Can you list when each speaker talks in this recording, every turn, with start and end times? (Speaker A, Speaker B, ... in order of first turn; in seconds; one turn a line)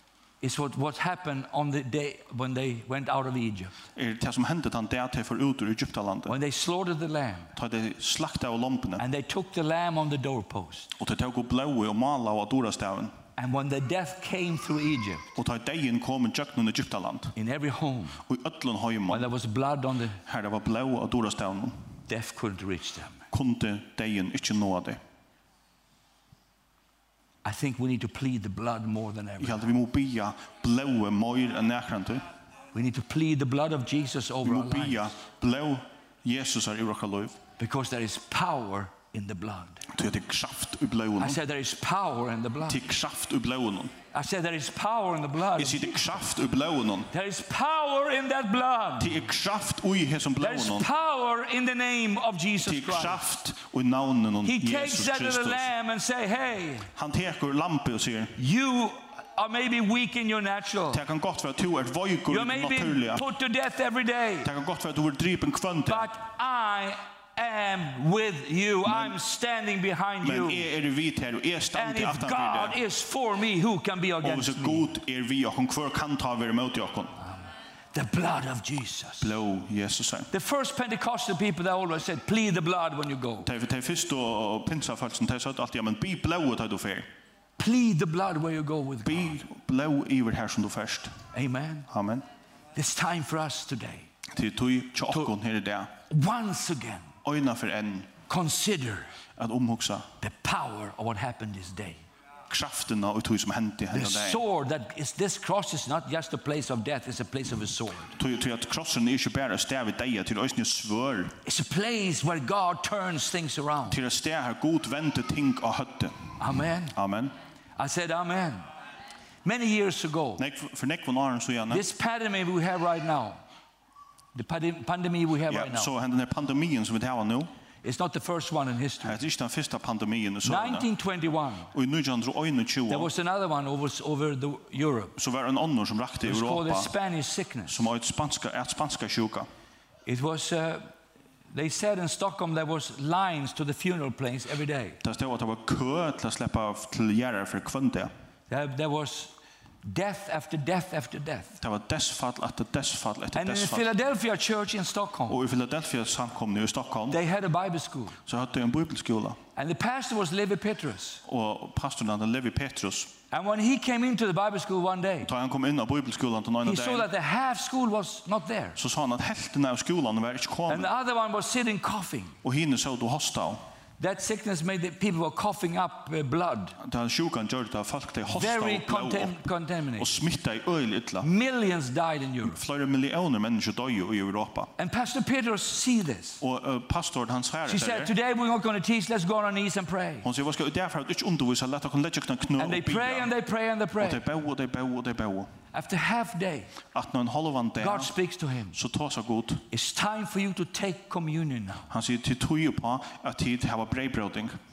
Speaker A: 0.4-3.7
Speaker B: 3.9-6.3
Speaker A: 6.3-7.5
Speaker B: 7.5-9.0
Speaker A: 9.0-10.9
Speaker B: 10.9-13.2
Speaker A: 13.4-15.4
Speaker B: 15.3-17.3
Speaker A: 17.3-18.2
Speaker B: 18.3-19.3
Speaker A: 19.1-20.2
Speaker B: 20.2-21.8
Speaker A: 22.1-23.2
Speaker B: 23.3-25.0
Speaker A: 27.4-29.7
Speaker B: 29.4-32.2
Speaker A: 32.7-35.1
Speaker B: 34.4-37.4
Speaker A: 37.6-39.9
Speaker B: 39.9-41.4
Speaker A: 41.2-42.8
Speaker B: 42.6-43.9
Speaker A: 44.1-46.0
Speaker B: 45.5-47.1
Speaker A: 47.1-49.2
Speaker B: 49.0-50.9
Speaker A: 50.4-53.2
Speaker B: 52.6-55.7
Speaker A: 54.4-56.9
Speaker B: 56.9-58.4
Speaker A: 58.4-61.0
Speaker B: 60.9-63.3
Speaker A: 62.3-64.5
Speaker B: 64.4-66.1
Speaker A: 65.9-70.7
Speaker B: 68.8-69.2
Speaker B: 70.2-72.8
Speaker A: 71.7-74.9
Speaker B: 74.2-77.2
Speaker A: 77.9-79.3
Speaker B: 79.2-80.3
Speaker A: 80.3-83.5
Speaker B: 83.4-87.0
Speaker A: 87.6-89.4
Speaker B: 89.0-91.1
Speaker A: 91.3-91.9
Speaker B: 91.9-92.2
Speaker A: 92.7-94.1
Speaker B: 94.3-95.9
Speaker A: 96.1-97.1
Speaker B: 97.2-98.1
Speaker A: 98.3-99.1
Speaker B: 99.4-100.1
Speaker A: 100.2-102.0
Speaker B: 102.5-104.4
Speaker A: 103.9-108.2
Speaker B: 108.2-111.3
Speaker A: 111.4-114.0
Speaker B: 113.9-116.3
Speaker A: 116.4-117.0
Speaker B: 116.9-117.3
Speaker A: 117.8-118.7
Speaker A: 119.4-120.4
Speaker B: 120.4-121.8
Speaker A: 121.7-123.4
Speaker A: 124.3-125.9
Speaker B: 125.5-127.5
Speaker A: 127.8-129.2
Speaker B: 129.0-130.9
Speaker A: 130.4-131.7
Speaker B: 131.7-133.1
Speaker A: 132.9-135.2
Speaker B: 135.2-136.9
Speaker A: 136.2-137.9
Speaker B: 137.7-139.5
Speaker A: 140.1-140.9
Speaker A: 141.5-145.0
Speaker B: 145.0-148.1
Speaker A: 148.5-151.6
Speaker B: 151.6-153.9
Speaker A: 153.3-155.4
Speaker B: 155.3-157.2
Speaker A: 157.1-158.2
Speaker B: 158.3-159.4
Speaker A: 159.6-161.2
Speaker B: 161.2-163.1
Speaker A: 163.3-165.3
Speaker B: 165.2-167.1
Speaker A: 166.6-168.8
Speaker B: 168.8-170.9
Speaker A: 170.7-172.4
Speaker B: 172.4-173.6
Speaker A: 174.0-176.8
Speaker B: 176.8-179.4
Speaker A: 178.3-180.2
Speaker B: 179.9-181.3
Speaker A: 181.2-182.6
Speaker B: 182.4-184.7
Speaker A: 184.8-186.4
Speaker B: 186.4-188.1
Speaker A: 187.7-190.3
Speaker B: 190.2-193.3
Speaker A: 192.6-194.2
Speaker B: 194.0-195.5
Speaker A: 195.7-196.7
Speaker B: 196.9-198.1
Speaker A: 197.8-198.8
Speaker B: 198.7-199.6
Speaker A: 199.7-201.9
Speaker B: 201.9-204.6